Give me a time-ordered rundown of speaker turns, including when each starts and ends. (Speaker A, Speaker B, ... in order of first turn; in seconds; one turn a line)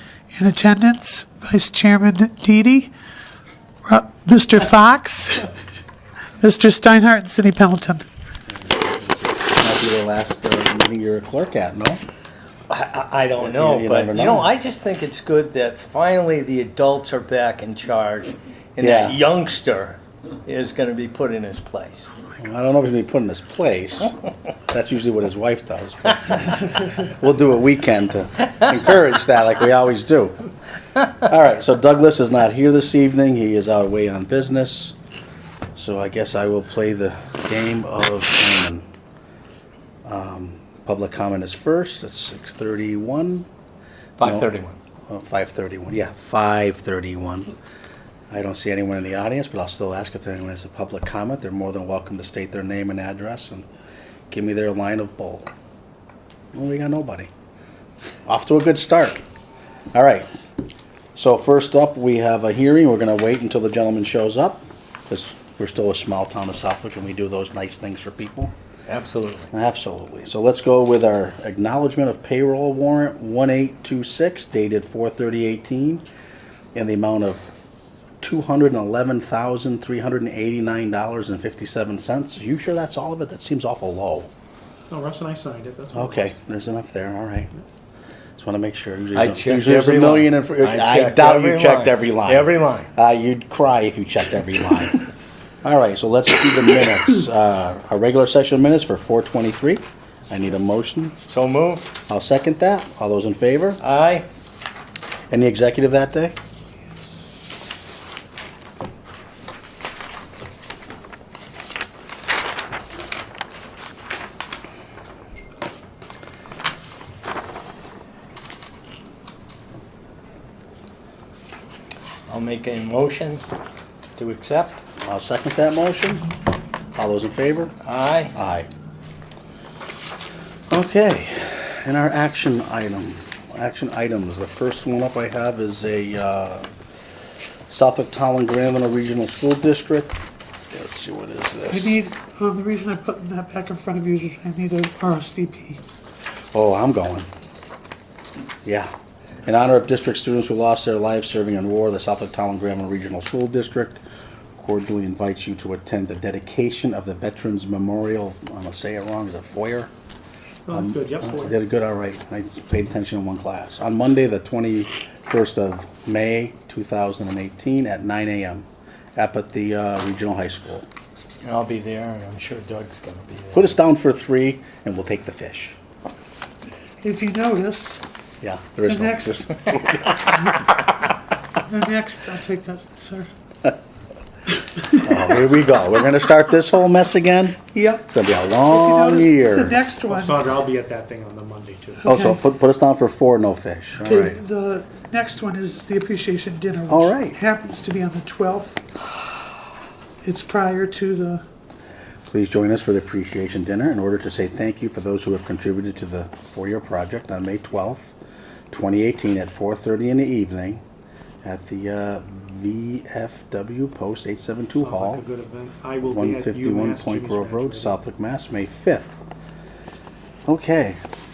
Speaker A: 0.3-2.9
Speaker A: 3.8-5.5
Speaker A: 6.4-8.1
Speaker B: 8.6-12.0
Speaker C: 12.7-22.1
Speaker B: 13.4-14.5
Speaker B: 18.8-19.2
Speaker B: 22.4-24.1
Speaker B: 24.7-30.4
Speaker B: 31.1-35.0
Speaker B: 35.7-38.8
Speaker B: 40.0-43.5
Speaker C: 44.2-44.8
Speaker B: 44.2-47.5
Speaker B: 48.3-53.7
Speaker B: 54.3-55.5
Speaker B: 56.5-57.3
Speaker B: 58.3-59.2
Speaker B: 59.9-60.3
Speaker B: 61.1-68.5
Speaker C: 68.9-69.5
Speaker B: 69.5-76.0
Speaker B: 76.7-77.5
Speaker B: 78.2-84.3
Speaker D: 84.9-86.2
Speaker B: 85.9-87.5
Speaker B: 88.4-95.0
Speaker C: 89.1-92.9
Speaker B: 95.6-101.2
Speaker C: 101.2-101.9
Speaker B: 102.1-103.8
Speaker C: 103.8-104.3
Speaker B: 105.3-106.3
Speaker C: 122.3-123.4
Speaker C: 124.1-124.8
Speaker B: 125.0-126.2
Speaker B: 126.9-127.7
Speaker C: 127.8-128.3
Speaker B: 128.3-128.7
Speaker B: 130.7-136.7
Speaker B: 137.7-140.2
Speaker B: 140.7-142.0
Speaker A: 141.7-145.8
Speaker B: 146.5-147.3
Speaker B: 148.6-148.9
Speaker B: 149.4-154.0
Speaker B: 154.6-159.9
Speaker D: 160.7-161.5
Speaker B: 160.7-170.9
Speaker C: 171.4-173.8
Speaker B: 173.5-175.8
Speaker A: 177.0-178.0
Speaker B: 178.4-180.3
Speaker A: 178.9-179.7
Speaker A: 180.3-180.5
Speaker A: 181.7-183.3
Speaker A: 184.8-185.1
Speaker B: 185.0-189.8
Speaker A: 187.7-188.0
Speaker A: 188.7-190.5
Speaker D: 190.1-192.1
Speaker A: 192.0-192.4
Speaker B: 192.0-194.4
Speaker A: 194.0-198.8
Speaker B: 196.9-197.4
Speaker A: 200.2-201.4
Speaker B: 202.3-208.1
Speaker B: 208.7-210.8
Speaker B: 211.4-215.2
Speaker D: 214.7-218.0
Speaker B: 216.1-219.1
Speaker B: 220.4-221.0